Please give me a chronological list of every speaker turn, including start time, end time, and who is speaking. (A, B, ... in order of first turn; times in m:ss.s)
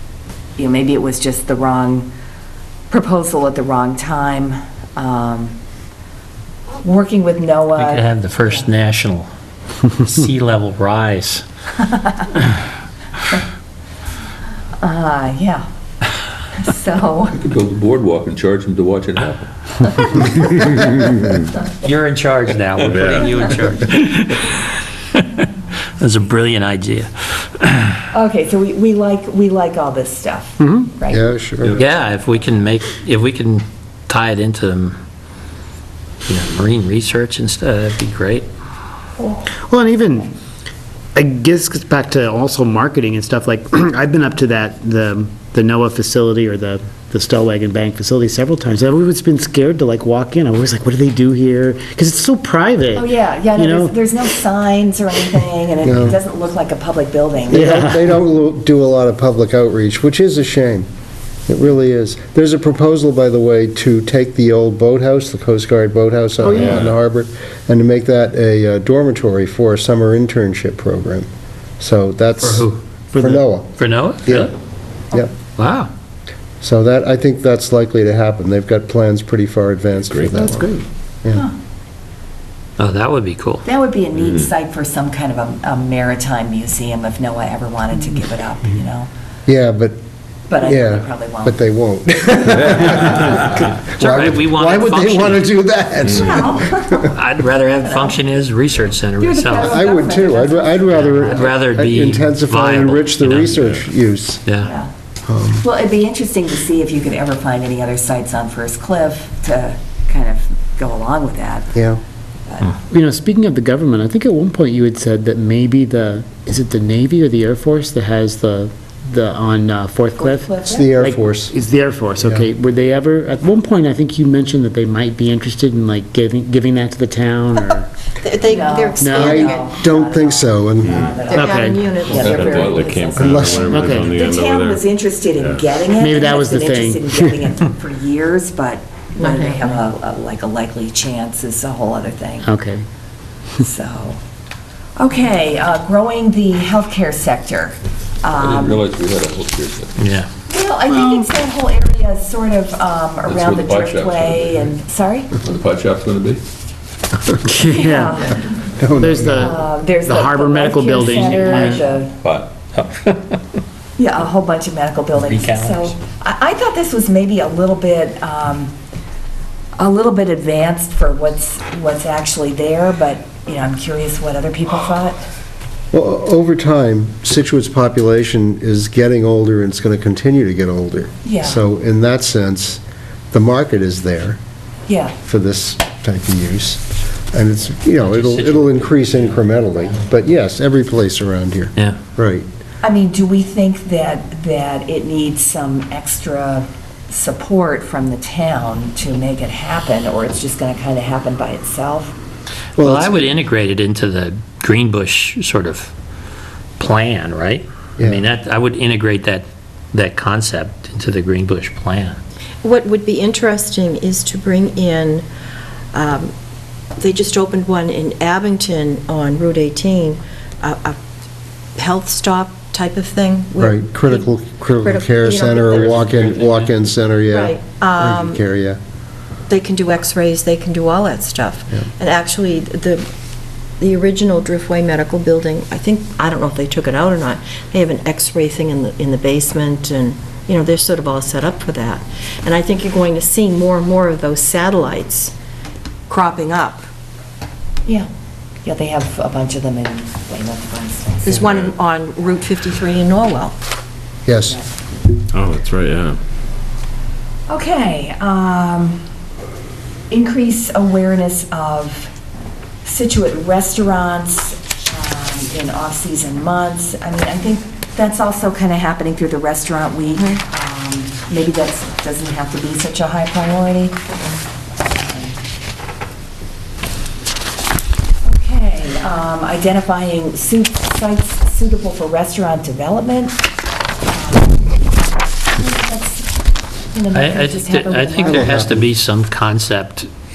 0:00.6-0:02.1 A
0:02.9-0:05.6 A
0:06.8-0:08.7 A
0:07.8-0:09.3 B
0:10.0-0:11.4 B
0:11.8-0:12.3 A
0:14.8-0:15.6 A
0:16.5-0:17.4 A
0:17.3-0:19.5 C
0:20.0-0:20.7 A
0:21.8-0:28.0 B
0:22.8-0:23.3 C
0:28.1-0:31.2 A
0:31.1-0:31.8 D
0:31.8-0:35.0 B
0:36.3-0:38.5 B
0:39.6-0:40.3 E
0:41.2-0:54.0 E
0:53.0-0:57.7 A
0:55.8-0:56.2 D
0:57.5-0:58.1 E
0:57.5-1:00.9 D
1:01.5-1:14.6 D
1:06.4-1:06.8 E
1:12.4-1:12.8 B
1:13.1-1:13.5 E
1:13.8-1:14.5 B
1:15.6-1:15.9 B
1:16.6-1:21.5 D
1:20.1-1:20.5 C
1:22.8-1:23.6 B
1:23.6-1:29.1 A
1:29.5-1:30.0 D
1:30.5-1:31.6 A
1:30.6-1:37.1 D
1:34.0-1:35.5 B
1:36.2-1:37.1 A
1:36.9-1:39.9 B
1:37.8-1:38.2 A
1:39.2-1:40.8 A
1:39.6-1:44.4 D
1:40.9-1:43.7 B
1:44.5-1:44.7 B
1:44.6-1:44.9 A
1:45.3-1:45.6 D
1:45.6-1:51.7 A
1:51.7-1:52.0 D
1:52.5-1:52.8 A
1:52.9-2:07.9 E
2:00.2-2:00.9 A
2:00.7-2:01.6 D
2:08.2-2:09.7 F
2:08.5-2:22.5 A
2:09.0-2:09.4 E
2:09.1-2:11.1 D
2:11.3-2:13.2 F
2:11.3-2:11.8 E
2:12.1-2:13.5 C
2:12.4-2:14.6 G
2:13.2-2:13.8 D
2:13.6-2:14.2 E
2:14.2-2:14.8 C
2:15.9-2:17.4 E
2:19.2-2:19.8 F
2:22.4-2:22.8 E
2:23.6-2:24.2 A
2:25.0-2:28.9 A
2:28.4-2:30.0 C
2:30.0-2:30.3 B
2:30.5-2:35.3 A
2:33.2-2:34.8 C
2:35.4-2:36.4 C
2:37.4-2:38.2 E
2:37.6-2:38.6 A
2:38.8-2:39.5 D
2:39.0-2:41.8 E
2:39.3-2:42.1 A
2:41.0-2:41.9 B
2:42.2-2:42.5 C
2:42.7-2:43.4 B
2:44.0-2:48.7 A
2:45.2-2:46.0 B
2:49.8-2:55.2 A
2:55.9-3:02.8 D
3:01.2-3:01.6 A
3:03.3-3:04.4 D
3:04.9-3:05.2 A
3:05.2-3:12.4 D
3:08.0-3:09.7 B
3:12.8-3:22.1 A
3:22.8-3:23.4 D
3:22.8-3:25.9 B
3:26.8-3:32.2 B
3:28.0-3:28.2 D
3:32.6-3:35.3 F
3:35.9-3:36.3 F
3:37.0-3:41.0 F
3:41.8-3:44.3 F
3:43.6-3:48.8 D
3:44.8-3:46.2 F
3:45.7-3:46.7 B
3:47.3-3:48.4 F
3:49.5-3:53.1 F
3:53.8-4:05.3 F
4:06.1-4:06.8 F
4:08.6-4:11.5 A
4:11.2-4:13.6 F
4:14.3-4:14.6 D
4:15.4-4:16.1 G
4:15.6-4:16.1 C
4:17.5-4:19.0 A
4:20.1-4:22.1 A
4:22.8-4:34.0 A
4:34.8-4:35.4 A
4:38.2-4:43.4 A
4:44.1-4:44.8 A
4:45.5-4:46.3 A
4:46.9-4:48.6 A
4:47.1-4:50.1 B
4:48.2-4:48.8 D